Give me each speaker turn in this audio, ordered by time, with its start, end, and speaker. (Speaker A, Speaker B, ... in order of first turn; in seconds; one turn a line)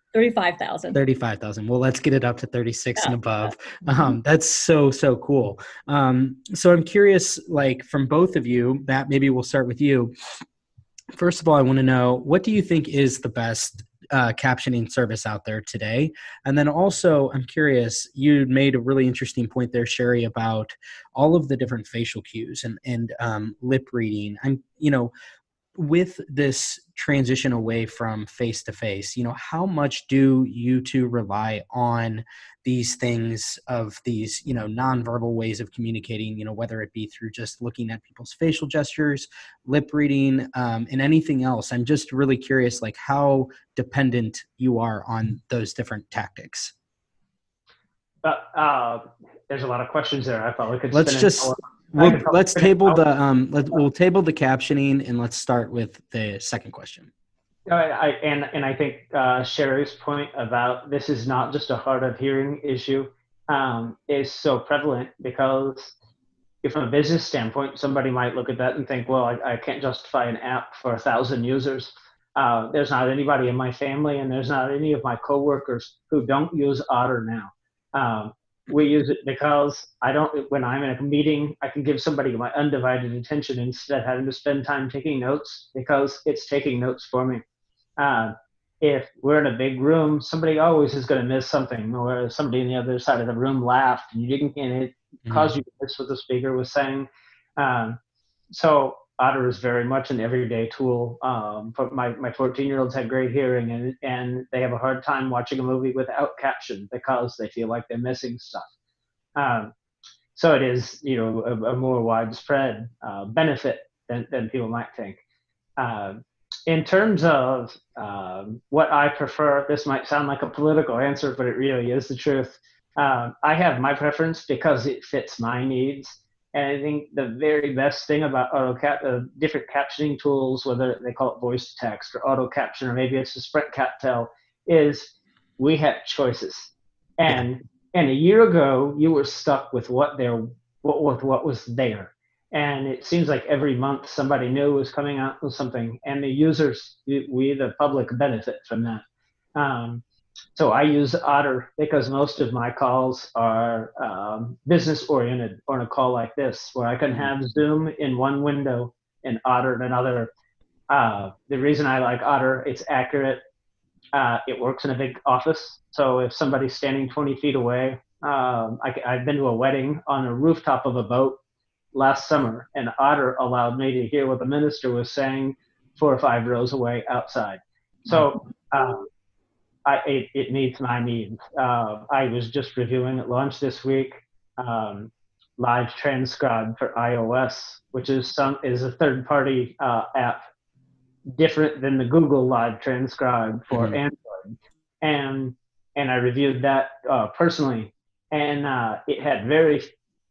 Speaker A: 0.1-1.0
Speaker B: 0.9-10.1
Speaker A: 3.0-4.0
Speaker B: 11.1-25.1
Speaker B: 25.8-46.7
Speaker C: 48.2-53.0
Speaker B: 50.9-57.1
Speaker C: 57.7-65.9
Speaker C: 66.6-87.4
Speaker C: 88.0-98.0
Speaker B: 95.3-95.5
Speaker C: 98.5-108.7
Speaker C: 109.4-109.7
Speaker C: 110.3-115.2
Speaker C: 115.8-149.0
Speaker C: 149.6-150.0
Speaker C: 150.6-160.3
Speaker C: 160.9-163.4
Speaker C: 164.1-171.4
Speaker C: 171.9-179.1
Speaker C: 179.8-190.4
Speaker C: 191.3-199.9
Speaker B: 193.7-194.0